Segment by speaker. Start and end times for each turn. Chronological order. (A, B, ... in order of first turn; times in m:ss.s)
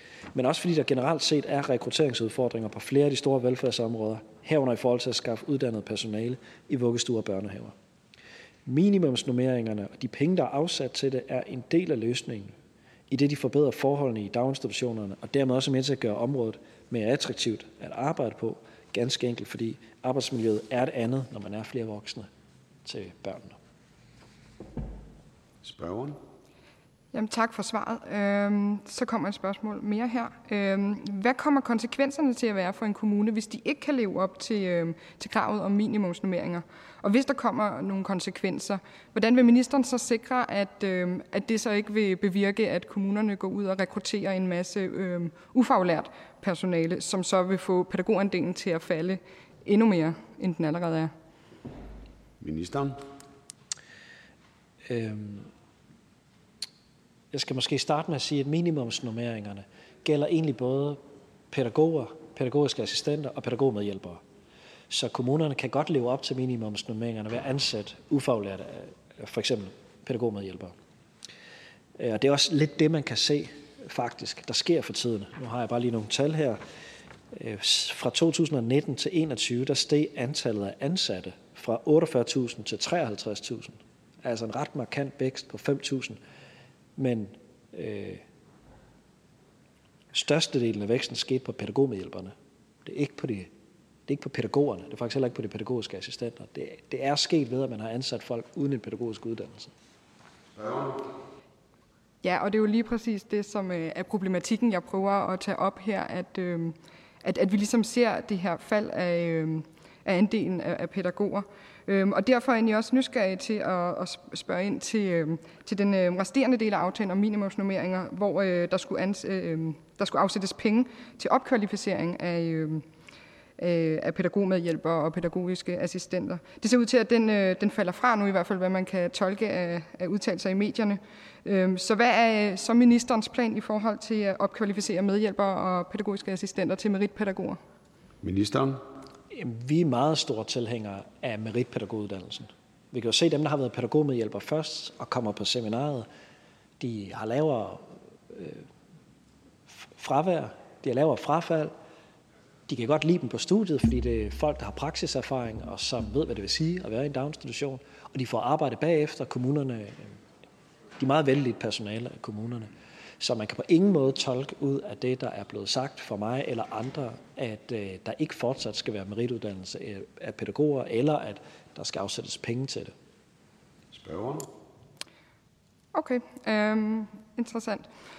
0:00.3-0:07.7 A
0:08.7-0:12.6 A
0:13.1-0:22.3 A
0:22.8-0:23.6 A
0:25.6-0:26.2 B
0:27.1-0:51.1 C
0:52.4-0:53.0 B
0:54.9-0:55.5 A
0:57.3-1:04.2 A
1:04.9-1:10.7 A
1:12.0-1:16.6 A
1:17.4-1:26.2 A
1:27.0-1:28.2 A
1:30.1-1:32.3 A
1:32.8-1:33.5 A
1:34.1-1:39.7 A
1:40.6-1:41.0 B
1:42.2-2:02.8 C
2:03.6-2:17.6 C
2:18.2-2:18.8 B
2:19.3-2:26.1 A
2:26.8-2:28.6 A
2:29.8-2:31.7 A
2:32.7-2:40.2 A
2:41.0-2:52.9 A
2:53.9-2:54.5 B
2:56.0-2:57.9 C